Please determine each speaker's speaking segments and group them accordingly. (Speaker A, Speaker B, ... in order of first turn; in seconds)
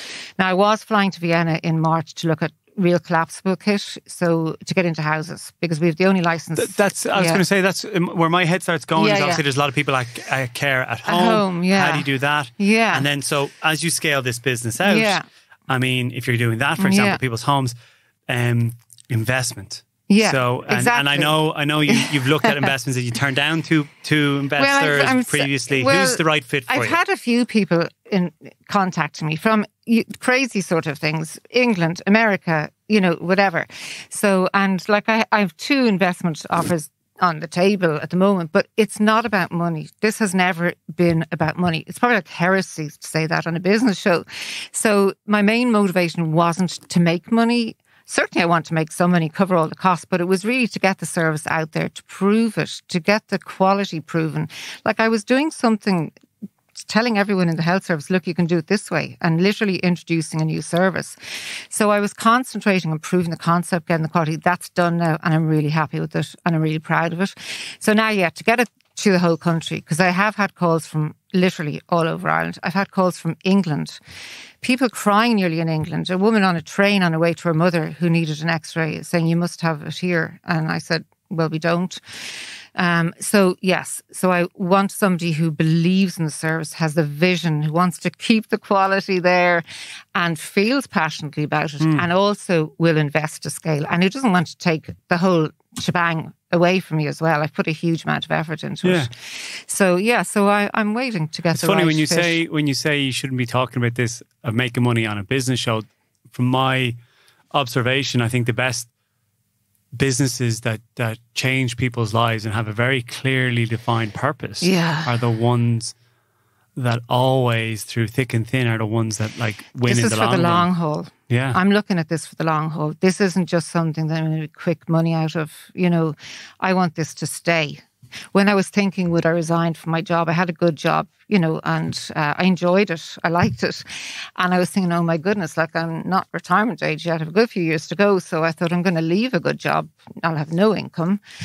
Speaker A: 0.4-7.4, 9.0-9.4, 11.1-12.1, 12.6-13.1, 14.8-15.2, 16.8-17.2, 20.1-22.7, 24.6-56.1, 56.9-61.1, 61.7-74.0, 74.6-82.0, 82.8-89.6, 90.1-102.4, 114.6-115.1, 119.9-133.9, 134.4-141.2
Speaker B: 6.6-17.7, 18.3-27.0, 98.8-99.1, 101.5-107.0, 107.5-108.9, 109.9-116.0, 116.8-120.7, 121.3-121.6